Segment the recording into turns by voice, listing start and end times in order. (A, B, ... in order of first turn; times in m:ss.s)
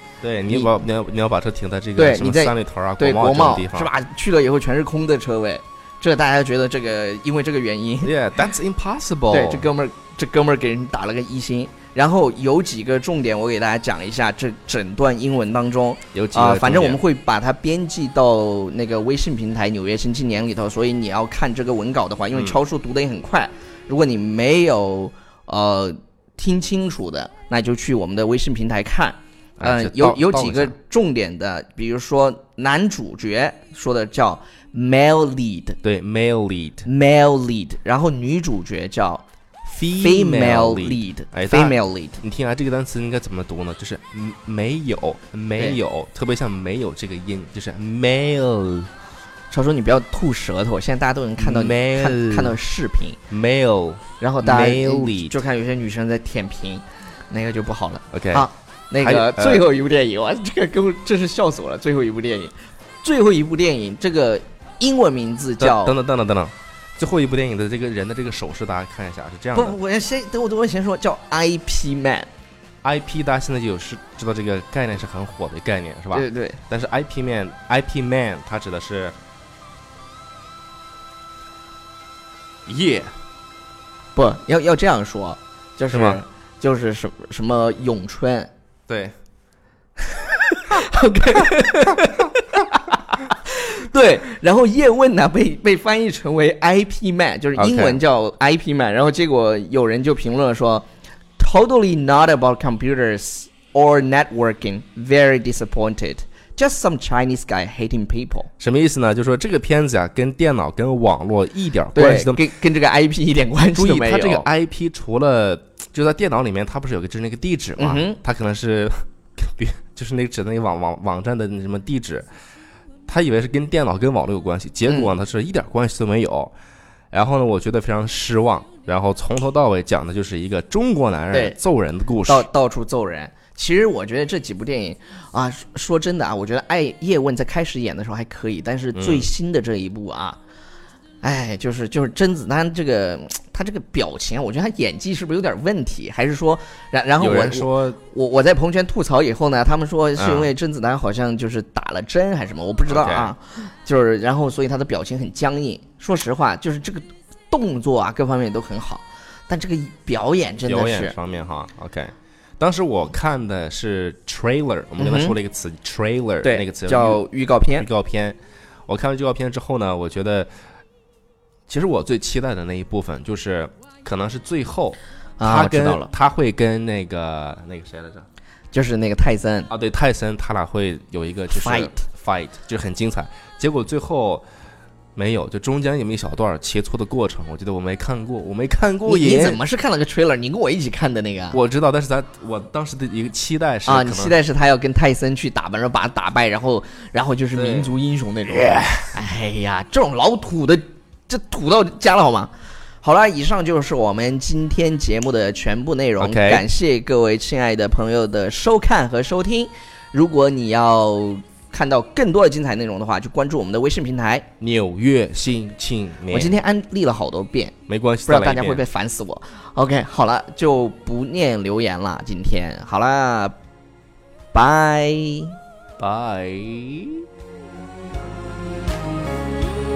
0:00.2-0:03.9 A
0:00.5-0:00.8 B
0:02.0-0:08.1 B
0:08.0-0:09.7 A
0:09.3-0:35.8 B
0:16.1-0:17.0 A
0:22.3-0:22.6 A
0:29.6-0:30.8 A
0:35.8-0:36.9 A
0:36.8-0:39.2 B
0:39.6-0:48.9 A
0:40.0-0:42.2 B
0:49.5-0:53.2 B
0:51.4-0:52.6 A
0:53.3-0:55.4 A
0:54.2-1:06.0 B
0:58.1-0:59.7 A
1:05.6-1:09.8 A
1:09.5-1:12.3 B
1:12.8-1:19.2 A
1:16.1-1:16.6 B
1:22.7-1:23.1 A
1:24.2-1:28.5 B
1:25.9-1:26.2 A
1:28.9-1:29.1 A
1:30.1-1:40.9 B
1:37.6-1:38.0 A
1:41.4-1:48.5 B
1:48.6-1:52.4 A
1:51.9-1:54.5 B
1:53.8-2:02.3 A
1:57.8-1:58.2 B
2:03.1-2:06.5 A
2:04.9-2:05.1 B
2:07.1-2:12.5 A
2:11.3-2:11.6 B
2:12.3-2:20.4 B
2:18.9-2:19.3 A
2:21.2-2:41.2 B
2:27.2-2:28.0 A
2:30.2-2:30.5 A
2:32.9-2:33.3 A
2:40.6-2:47.2 A
2:45.0-2:45.4 B
2:46.4-2:47.9 B
2:47.8-2:50.5 A
2:51.7-2:58.2 A
2:55.4-2:56.1 B
2:58.7-2:59.7 B
2:59.7-3:04.4 A
3:01.5-3:02.0 B
3:05.2-3:09.6 A
3:09.0-3:11.6 B
3:11.5-3:14.4 A
3:13.9-3:34.5 B
3:17.5-3:17.9 A
3:18.5-3:19.1 A
3:26.2-3:26.6 A
3:34.6-3:36.6 A
3:36.3-3:37.8 B
3:37.9-3:38.8 A
3:38.3-3:43.6 B
3:44.5-3:45.6 B
3:46.0-3:47.2 A